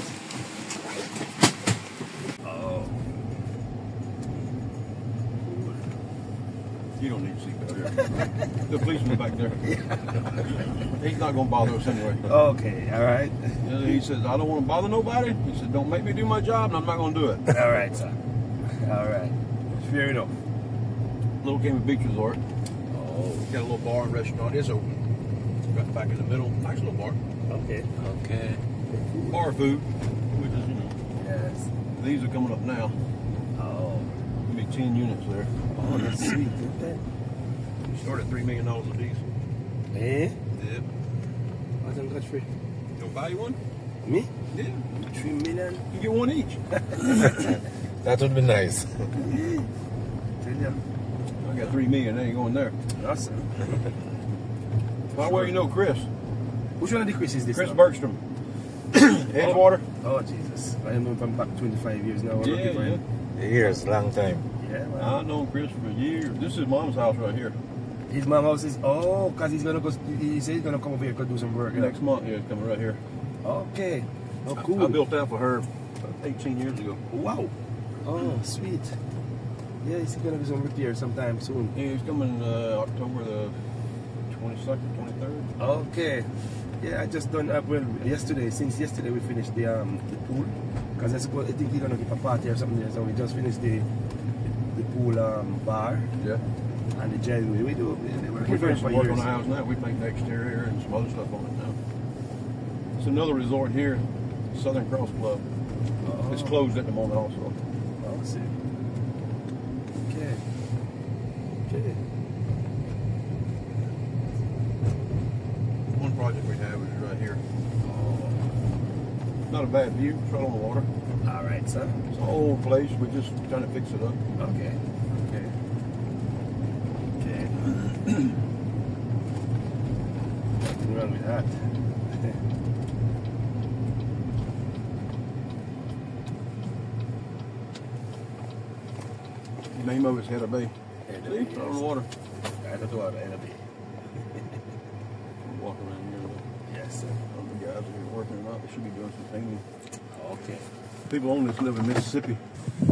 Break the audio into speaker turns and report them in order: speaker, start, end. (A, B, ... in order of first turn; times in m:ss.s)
0:02.4-0:03.0 A
0:07.0-0:09.8 B
0:10.8-0:12.3 B
0:12.2-0:13.9 A
0:13.6-0:17.6 B
0:17.5-0:20.3 A
0:21.4-0:22.4 B
0:22.9-0:23.5 A
0:23.5-0:24.9 B
0:25.7-0:27.2 B
0:27.5-0:27.9 A
0:28.0-0:28.6 C
0:28.9-0:29.4 A
0:29.3-0:31.0 B
0:31.2-0:31.7 A
0:32.0-0:33.0 B
0:33.6-0:34.1 A
0:34.4-0:36.3 B
0:35.7-0:37.0 A
0:37.9-0:39.2 B
0:39.9-0:40.4 A
0:40.6-0:40.9 B
0:41.8-0:42.5 A
0:43.0-0:43.6 B
0:44.0-0:44.3 A
0:44.5-0:44.8 B
0:44.9-0:45.8 A
0:45.9-0:47.4 B
0:47.3-0:49.1 C
0:49.2-0:49.7 A
0:50.4-0:50.8 A
0:51.4-0:52.8 B
0:53.0-0:53.9 A
0:55.1-0:55.6 A
0:55.1-0:56.1 B
0:56.8-0:57.8 A
0:57.5-0:58.2 B
0:58.9-0:59.8 B
0:59.4-1:03.0 A
1:02.4-1:03.0 B
1:03.4-1:04.5 C
1:04.6-1:05.2 A
1:05.0-1:07.6 B
1:08.1-1:12.0 A
1:11.7-1:13.0 B
1:13.4-1:15.0 A
1:14.5-1:17.0 B
1:17.1-1:17.5 A
1:18.0-1:19.0 A
1:19.8-1:21.7 A
1:21.8-1:23.6 B
1:24.3-1:25.5 B
1:25.6-1:33.9 A
1:34.7-1:36.1 A
1:36.2-1:36.4 B
1:36.9-1:39.3 A
1:38.4-1:41.8 B
1:43.0-1:45.4 B
1:46.0-1:46.6 A
1:46.3-1:47.6 B
1:48.0-1:48.6 A
1:50.1-1:50.4 A
1:51.7-1:52.0 A
1:56.0-1:57.4 B
1:57.8-1:58.4 A
1:59.5-2:00.9 B
2:01.2-2:02.0 A
2:02.1-2:04.2 B
2:04.4-2:05.6 A
2:07.2-2:07.8 A
2:10.6-2:12.4 A
2:19.7-2:22.1 B
2:21.1-2:21.8 A
2:22.6-2:23.6 A
2:25.4-2:26.4 B
2:26.7-2:27.2 A
2:27.3-2:29.6 B
2:30.1-2:30.7 A
2:31.1-2:32.4 B